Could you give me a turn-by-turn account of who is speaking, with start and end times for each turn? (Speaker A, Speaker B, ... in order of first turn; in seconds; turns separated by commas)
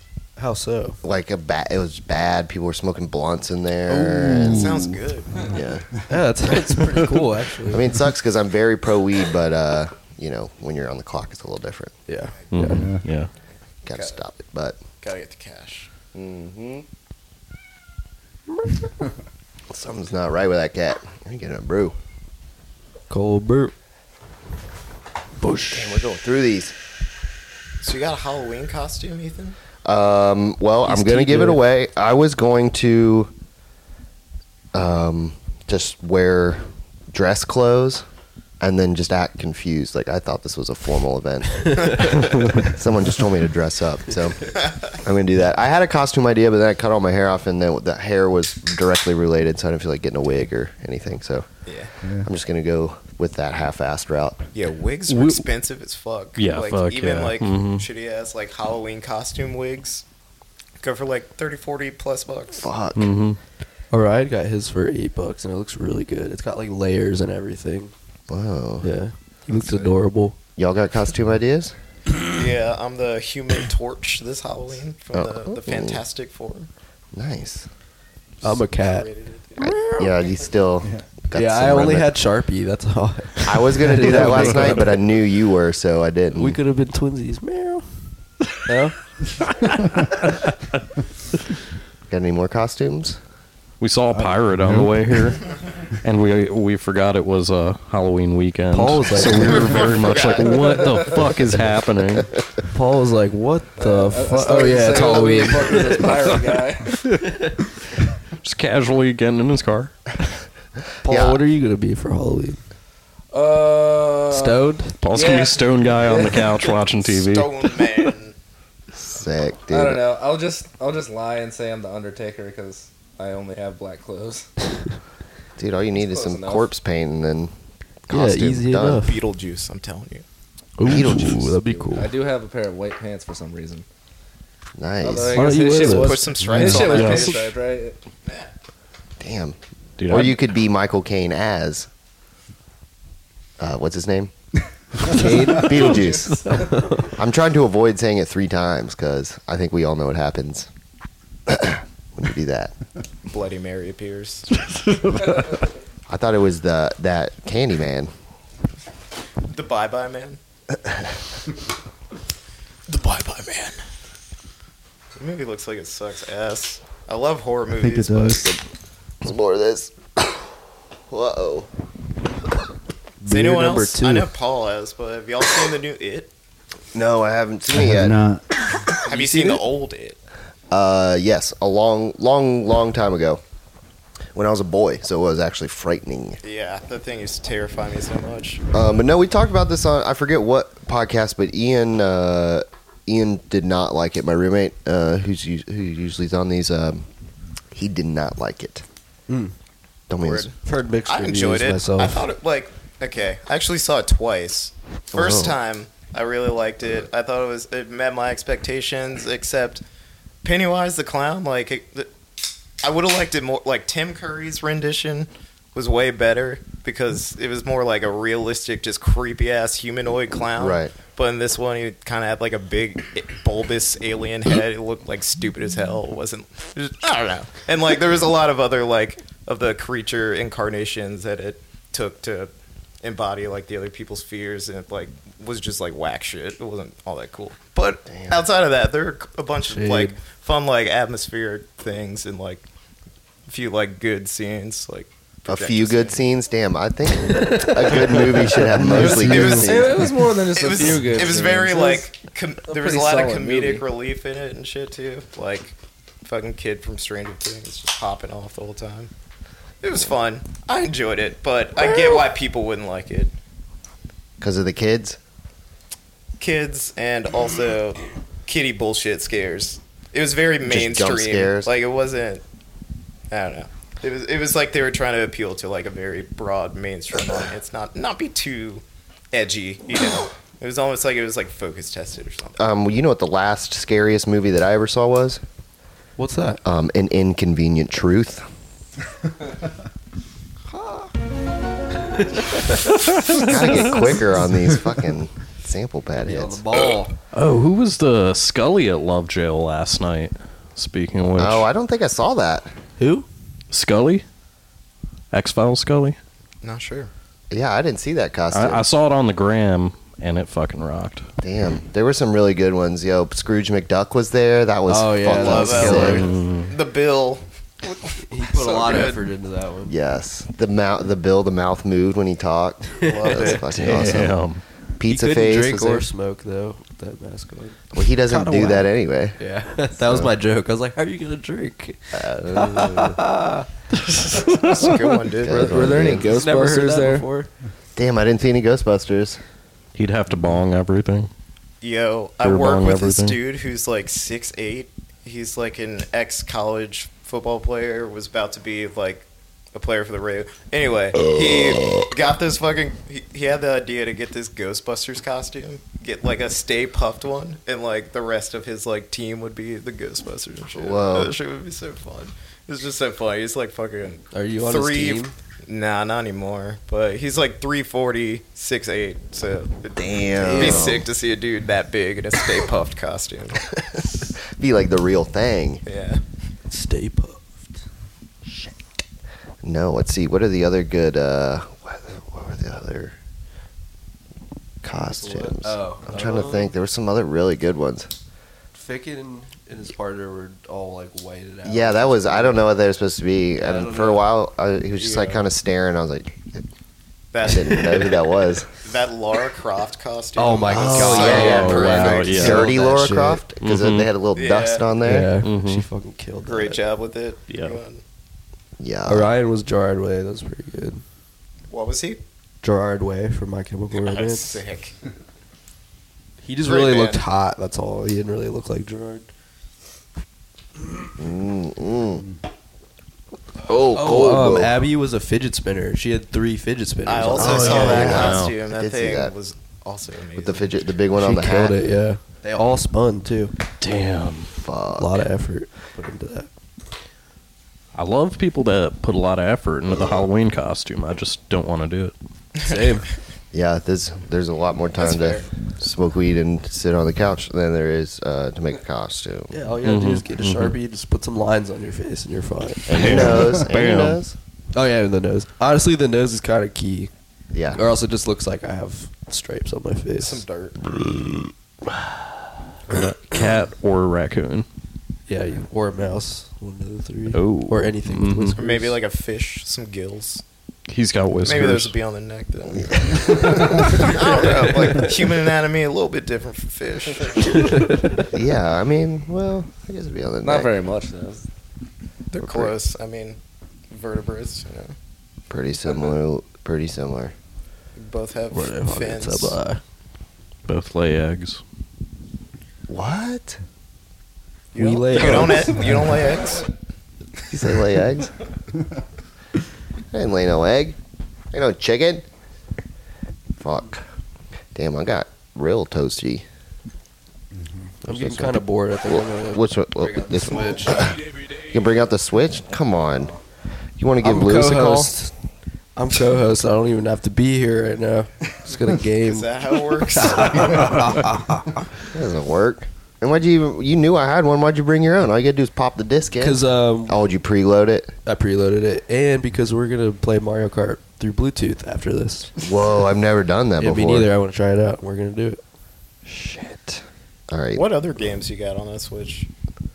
Speaker A: 0.4-1.0, Speaker B: 1.0-4.8, Speaker C: 4.5-5.5, Speaker B: 5.5-5.9, Speaker A: 6.1-7.8, Speaker B: 7.7-11.9, Speaker A: 12.1-12.9, Speaker D: 12.5-13.3, Speaker E: 12.7-13.0, Speaker B: 13.8-14.8, Speaker C: 13.9-14.2, Speaker C: 15.0-15.9, Speaker B: 16.1-16.9, Speaker B: 19.7-21.9, Speaker A: 23.1-23.7, Speaker A: 25.4-25.9, Speaker B: 25.7-26.8, Speaker C: 27.8-29.6, Speaker B: 29.8-33.3, Speaker A: 30.8-31.6, Speaker B: 34.7-38.0, Speaker B: 38.6-51.5, Speaker C: 44.6-44.9, Speaker C: 51.6-51.9, Speaker B: 52.2-54.4, Speaker C: 54.5-60.0, Speaker D: 55.1-55.5, Speaker D: 56.4-57.9, Speaker C: 60.8-62.7, Speaker B: 62.6-63.2, Speaker D: 63.0-63.4, Speaker A: 63.9-67.9, Speaker B: 68.3-68.9, Speaker A: 68.8-70.4, Speaker C: 69.5-69.9, Speaker B: 70.5-71.7, Speaker C: 72.3-76.7, Speaker B: 75.1-76.0, Speaker B: 77.1-77.7, Speaker C: 78.4-79.7, Speaker A: 78.4-80.1, Speaker B: 79.6-82.1, Speaker A: 81.3-85.0, Speaker B: 83.4-86.6, Speaker A: 86.3-87.9, Speaker A: 88.5-89.0, Speaker B: 92.1-93.2, Speaker D: 93.8-95.4, Speaker E: 94.1-95.0, Speaker D: 96.0-102.3, Speaker A: 98.7-99.8, Speaker C: 99.2-101.1, Speaker A: 102.7-106.3, Speaker F: 103.8-107.0, Speaker D: 108.4-109.9, Speaker A: 111.0-112.6, Speaker B: 111.0-111.4, Speaker F: 113.3-116.7, Speaker A: 114.3-115.0, Speaker D: 115.0-117.8, Speaker C: 116.9-118.3, Speaker B: 118.9-120.0, Speaker F: 119.7-124.5, Speaker B: 125.6-127.5, Speaker F: 126.0-126.7, Speaker B: 128.1-129.1, Speaker A: 128.1-129.2, Speaker C: 129.0-130.2, Speaker A: 130.8-132.1, Speaker B: 130.8-131.6, Speaker F: 131.7-133.8, Speaker B: 134.8-135.4, Speaker F: 135.0-137.9, Speaker A: 135.3-136.2, Speaker C: 135.8-137.5, Speaker E: 136.4-136.8, Speaker A: 136.8-137.2, Speaker D: 136.8-137.3, Speaker B: 139.2-141.9, Speaker D: 140.0-140.4, Speaker B: 143.6-144.3, Speaker A: 145.0-147.1, Speaker B: 145.1-150.7, Speaker B: 151.5-152.7, Speaker C: 153.3-154.5, Speaker D: 154.9-155.4, Speaker B: 156.1-158.1, Speaker C: 159.5-160.4, Speaker B: 160.7-161.1, Speaker C: 162.9-163.8, Speaker C: 165.2-168.5, Speaker E: 167.7-168.6, Speaker B: 169.2-170.4, Speaker B: 171.1-171.7, Speaker A: 173.2-174.3, Speaker C: 173.3-176.3, Speaker B: 176.9-178.2, Speaker E: 177.7-178.4, Speaker C: 179.0-180.2, Speaker B: 180.7-183.4, Speaker B: 184.3-186.4, Speaker C: 186.4-188.6, Speaker B: 188.7-197.1, Speaker B: 197.7-198.8, Speaker A: 199.3-199.5, Speaker B: 200.1-200.5, Speaker C: 200.2-200.5, Speaker A: 200.6-202.3, Speaker C: 201.1-209.8, Speaker B: 205.1-205.6, Speaker C: 210.4-212.1, Speaker C: 212.8-232.5, Speaker B: 220.5-220.9, Speaker C: 233.0-242.7, Speaker B: 238.1-238.4, Speaker A: 239.7-240.2, Speaker C: 243.5-246.2, Speaker B: 245.5-250.1, Speaker A: 247.3-248.3, Speaker E: 248.7-249.8, Speaker F: 248.9-252.1, Speaker C: 249.1-259.1, Speaker F: 252.7-253.8, Speaker C: 259.8-263.3, Speaker B: 264.4-265.2, Speaker C: 266.4-272.4, Speaker B: 270.6-271.7, Speaker C: 273.3-282.6, Speaker B: 282.6-285.4, Speaker A: 286.2-286.6, Speaker B: 286.6-288.4, Speaker B: 293.3-296.6, Speaker A: 296.2-297.1, Speaker D: 297.3-301.7, Speaker B: 301.4-302.7, Speaker A: 303.0-303.3, Speaker D: 303.7-304.2, Speaker D: 305.3-306.2, Speaker C: 306.6-307.1, Speaker B: 307.5-308.8, Speaker D: 308.5-311.3, Speaker B: 311.4-316.3, Speaker A: 314.9-316.3, Speaker C: 315.3-319.3, Speaker D: 316.1-316.7, Speaker A: 318.3-319.9, Speaker B: 319.9-324.4, Speaker A: 323.0-324.0, Speaker C: 323.0-323.7, Speaker D: 323.8-324.6, Speaker B: 325.0-326.1, Speaker A: 325.0-328.8, Speaker B: 327.9-329.4, Speaker A: 329.4-333.7, Speaker B: 330.0-330.3, Speaker B: 332.1-333.2, Speaker D: 334.1-334.9, Speaker C: 334.5-336.0, Speaker B: 335.4-336.3, Speaker F: 335.5-337.3, Speaker A: 336.2-337.5, Speaker B: 337.9-339.4, Speaker D: 339.9-341.3, Speaker C: 341.8-373.7, Speaker D: 342.4-343.4, Speaker B: 360.7-361.3, Speaker A: 364.3-365.3, Speaker B: 369.9-371.1, Speaker A: 370.4-371.0, Speaker B: 374.0-375.8, Speaker C: 375.8-376.2, Speaker A: 376.7-377.8, Speaker B: 379.6-383.1, Speaker B: 384.8-388.1, Speaker A: 385.2-386.7, Speaker A: 388.7-392.6, Speaker B: 391.6-396.6, Speaker A: 393.6-394.3, Speaker C: 394.9-395.4, Speaker C: 397.3-402.7, Speaker B: 397.4-398.7, Speaker A: 400.4-403.4, Speaker B: 400.7-405.3, Speaker D: 401.2-402.7, Speaker D: 403.6-404.1, Speaker C: 404.3-404.9, Speaker A: 405.0-406.8, Speaker D: 405.4-405.8, Speaker C: 406.4-408.0, Speaker D: 407.5-407.8, Speaker B: 408.8-409.3, Speaker A: 409.1-411.0, Speaker C: 411.7-412.2, Speaker A: 412.6-414.6, Speaker C: 413.9-414.9, Speaker A: 416.4-419.3, Speaker C: 416.6-417.2, Speaker B: 421.2-422.2, Speaker B: 423.6-424.8, Speaker A: 423.9-428.2, Speaker C: 427.1-430.7, Speaker B: 427.4-429.3, Speaker D: 428.0-428.6, Speaker B: 430.4-431.8, Speaker A: 431.1-433.5, Speaker D: 433.8-434.5, Speaker B: 434.6-435.2, Speaker A: 435.0-436.5, Speaker D: 437.9-442.1, Speaker B: 439.9-440.2, Speaker C: 442.6-443.0, Speaker A: 442.6-443.1, Speaker B: 443.5-449.5, Speaker C: 445.0-445.5, Speaker A: 449.5-453.3, Speaker D: 449.8-450.7, Speaker B: 452.9-454.4, Speaker D: 452.9-454.2, Speaker A: 454.7-457.1, Speaker B: 457.5-457.8, Speaker A: 457.7-460.4, Speaker C: 460.2-460.8, Speaker D: 462.9-464.6, Speaker A: 465.3-469.0, Speaker D: 467.3-468.6, Speaker C: 468.6-470.4, Speaker D: 470.9-471.9, Speaker C: 471.4-477.8, Speaker B: 472.7-473.8, Speaker A: 477.5-478.2, Speaker B: 478.3-480.7, Speaker F: 480.4-481.4, Speaker C: 482.3-483.4, Speaker B: 482.4-482.7, Speaker C: 483.9-484.9, Speaker B: 485.5-487.3, Speaker C: 488.0-489.6, Speaker A: 488.5-489.8, Speaker D: 490.7-491.6, Speaker B: 492.9-493.6, Speaker C: 494.7-496.7, Speaker A: 494.8-496.0, Speaker B: 497.5-498.3, Speaker B: 500.1-501.0, Speaker B: 501.5-502.3, Speaker B: 503.6-504.0, Speaker B: 504.7-506.4, Speaker E: 507.6-507.9, Speaker A: 508.1-511.0, Speaker B: 508.1-513.3, Speaker B: 514.0-515.1, Speaker A: 514.2-515.3, Speaker A: 516.0-519.5, Speaker C: 519.2-521.0, Speaker A: 520.1-521.8, Speaker B: 522.1-528.1, Speaker A: 526.4-527.2, Speaker A: 528.3-532.5, Speaker B: 532.6-534.3, Speaker A: 533.8-535.6, Speaker B: 536.2-537.9, Speaker C: 537.7-539.5